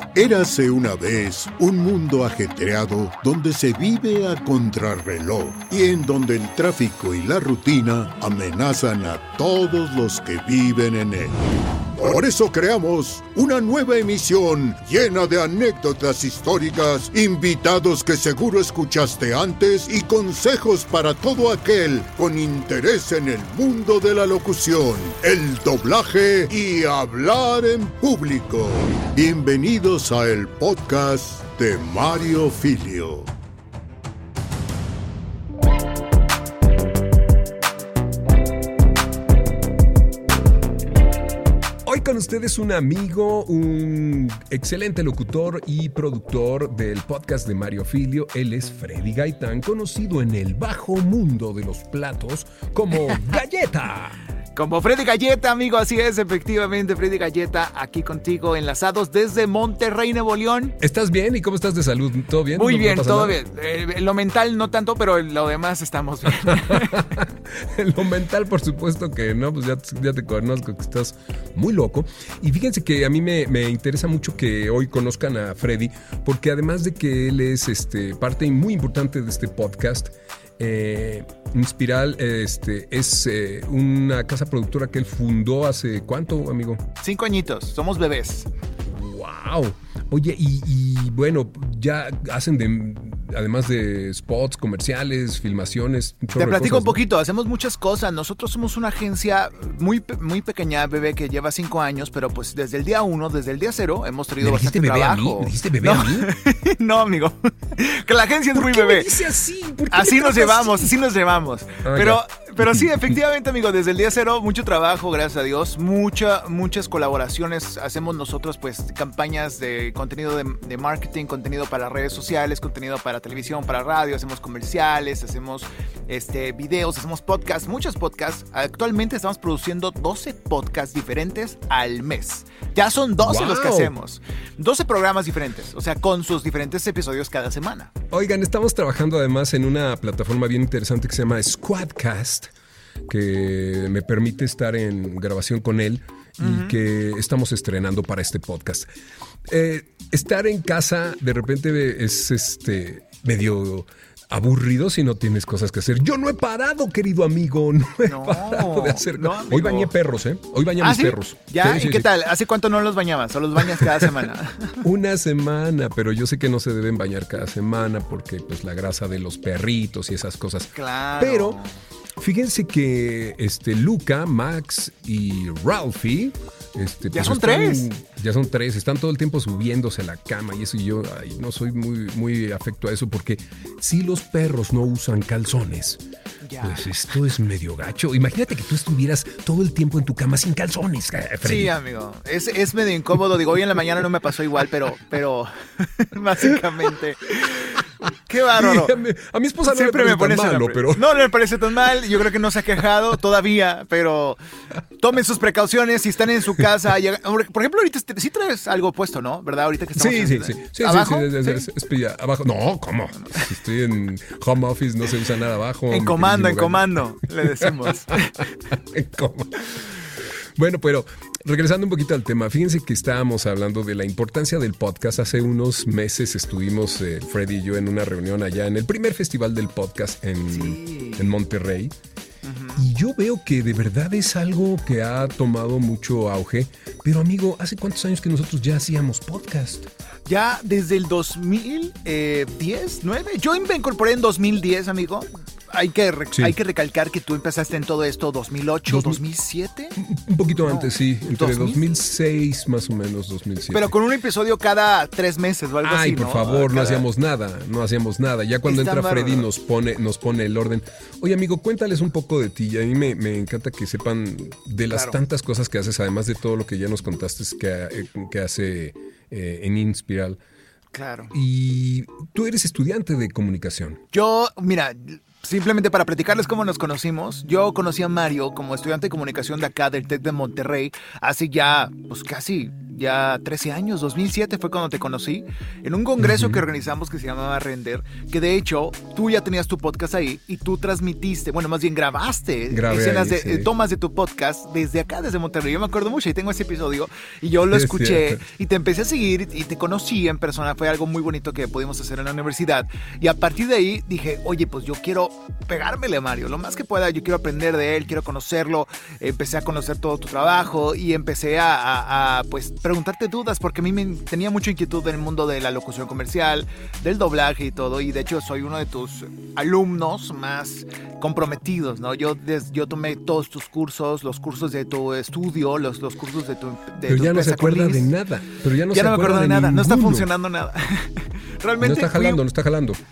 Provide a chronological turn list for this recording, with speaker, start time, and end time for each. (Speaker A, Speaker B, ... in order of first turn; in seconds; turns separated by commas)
Speaker A: 0.1-11.4, Speaker A: 11.9-33.3, Speaker B: 41.9-54.2, Speaker C: 54.5-60.8, Speaker B: 60.8-63.3, Speaker C: 62.5-67.0, Speaker B: 66.5-86.8, Speaker C: 87.0-88.5, Speaker B: 88.8-97.0, Speaker C: 96.4-109.2, Speaker B: 104.4-106.3, Speaker B: 108.5-110.9, Speaker C: 109.9-137.9, Speaker B: 111.8-112.9, Speaker B: 133.2-133.9, Speaker B: 138.1-142.5, Speaker B: 143.1-148.9, Speaker C: 146.4-146.8, Speaker B: 149.5-162.1, Speaker C: 158.1-159.9, Speaker C: 160.8-164.8, Speaker B: 163.8-164.1, Speaker B: 164.8-171.6, Speaker C: 170.7-171.7, Speaker B: 172.2-186.0, Speaker C: 177.1-177.9, Speaker C: 186.4-186.9, Speaker B: 186.6-191.7, Speaker C: 191.4-198.9, Speaker B: 198.5-201.0, Speaker C: 199.7-204.4, Speaker C: 205.0-211.7, Speaker B: 210.0-231.9, Speaker C: 215.9-218.3, Speaker C: 230.5-231.3, Speaker C: 232.4-232.8, Speaker B: 232.8-239.9, Speaker C: 240.3-249.9, Speaker B: 248.9-249.2, Speaker B: 250.0-253.9, Speaker C: 250.6-251.8, Speaker C: 253.7-257.0, Speaker B: 255.8-270.4, Speaker C: 258.6-259.5, Speaker C: 264.9-265.1, Speaker C: 270.9-271.3, Speaker B: 271.3-274.0, Speaker C: 274.1-328.1, Speaker B: 286.2-286.6, Speaker B: 292.7-293.7, Speaker B: 297.7-298.4, Speaker B: 327.1-330.3, Speaker C: 328.9-332.4, Speaker B: 331.8-333.0